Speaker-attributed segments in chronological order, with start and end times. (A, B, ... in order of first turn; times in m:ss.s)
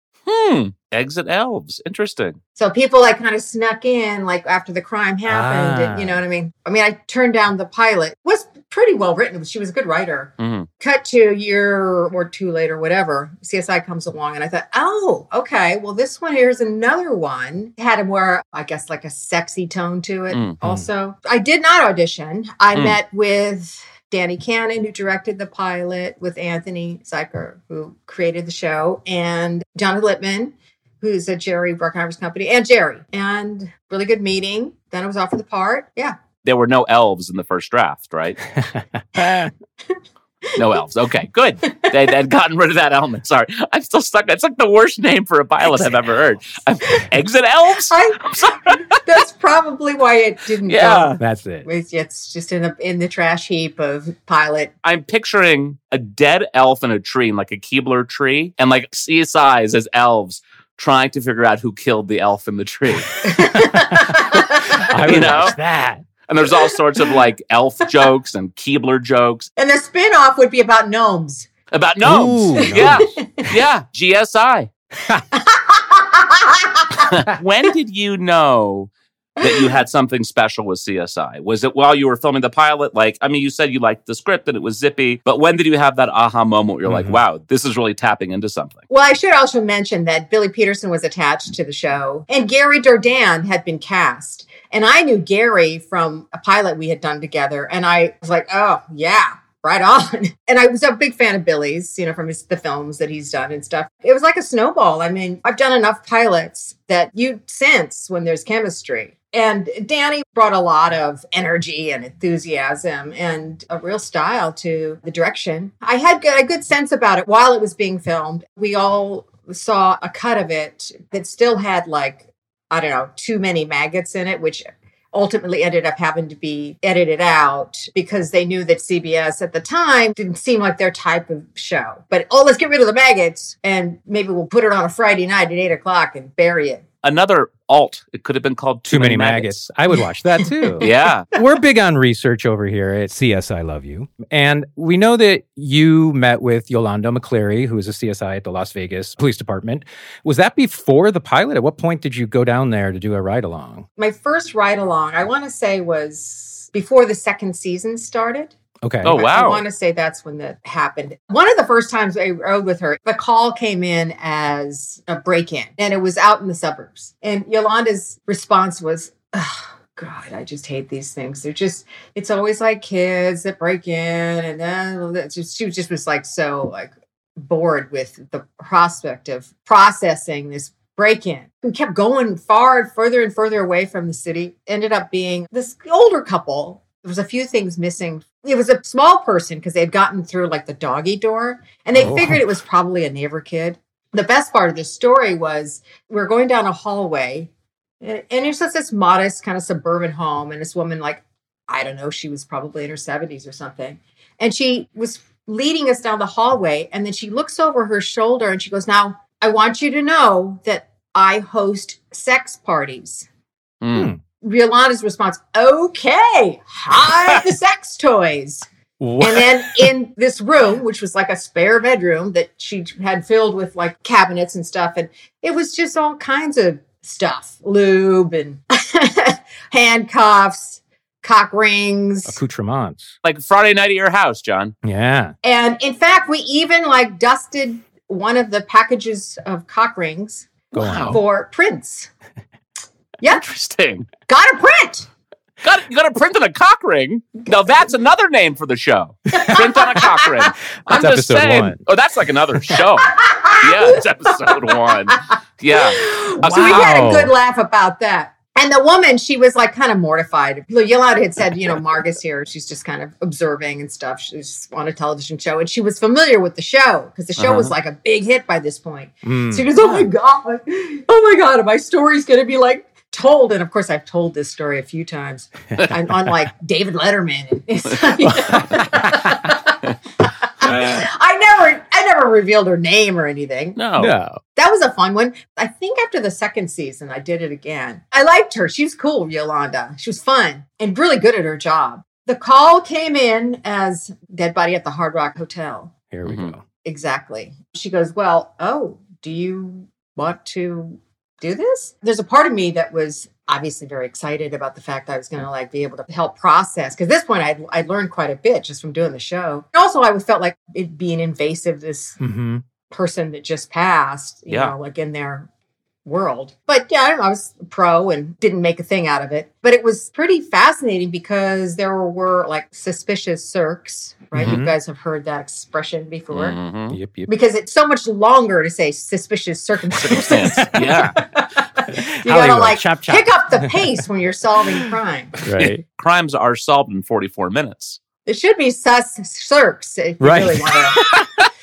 0:00.2-0:02.4 A
0:02.6-0:36.2 B
0:05.3-0:06.2 C
0:10.4-0:10.7 A
0:20.3-0:20.6 A
0:36.4-0:38.4 A
0:39.1-0:39.5 C
0:40.5-0:49.0 A
0:47.9-0:54.7 B
0:50.6-0:51.2 A
0:51.2-0:51.7 C
0:54.8-1:03.2 A
1:03.2-1:05.3 B
1:03.3-1:06.1 C
1:04.8-1:05.6 A
1:06.3-1:09.5 A
1:09.6-1:11.5 B
1:11.7-1:14.7 A
1:12.0-1:13.1 C
1:12.6-1:13.5 B
1:15.3-1:17.1 B
1:17.0-1:28.8 A
1:19.4-1:19.7 B
1:26.8-1:27.2 C
1:28.9-2:16.8 B
2:17.0-2:19.6 A
2:18.9-2:33.8 C
2:20.6-2:20.9 B
2:20.8-2:21.3 A
2:34.0-2:38.5 B
2:38.8-2:39.2 C
2:39.0-2:39.6 A
2:39.0-3:17.5 B
3:12.0-3:12.4 C
3:18.0-3:33.3 B
3:33.8-3:34.1 A
3:33.9-3:34.2 C
3:34.4-3:38.7 B
3:39.0-3:39.9 C
3:39.2-3:52.4 B
3:52.2-3:53.1 C
3:53.2-3:54.7 A
3:54.8-3:55.3 C
3:55.4-4:02.1 B
4:00.7-4:01.2 C
4:00.7-4:01.2 A
4:03.3-4:04.1 A
4:04.3-4:05.1 B
4:05.6-4:16.9 A
4:09.3-4:10.3 B
4:10.9-4:11.8 C
4:12.7-4:15.2 B
4:15.7-4:43.8 B
4:16.4-4:17.3 C
4:27.4-4:27.7 A
4:29.2-4:29.7 C
4:38.2-4:39.4 C
4:43.8-4:44.1 A
4:44.0-4:44.4 C
4:44.5-4:55.9 B
4:56.1-4:56.6 C
4:56.2-4:56.5 A
4:56.8-5:12.2 B
5:12.2-5:12.6 C
5:12.9-5:15.5 B
5:14.5-5:14.7 A
5:16.0-5:26.6 B
5:24.3-5:24.7 C
5:24.4-5:24.7 A
5:26.3-5:27.0 A
5:26.9-5:27.3 C
5:27.3-5:35.4 B
5:30.0-5:31.2 A
5:30.1-5:31.2 C
5:31.9-5:34.0 C
5:35.4-5:35.8 C
5:35.5-5:38.0 A
5:38.2-5:41.1 B
5:40.2-5:41.3 C
5:41.1-5:41.4 A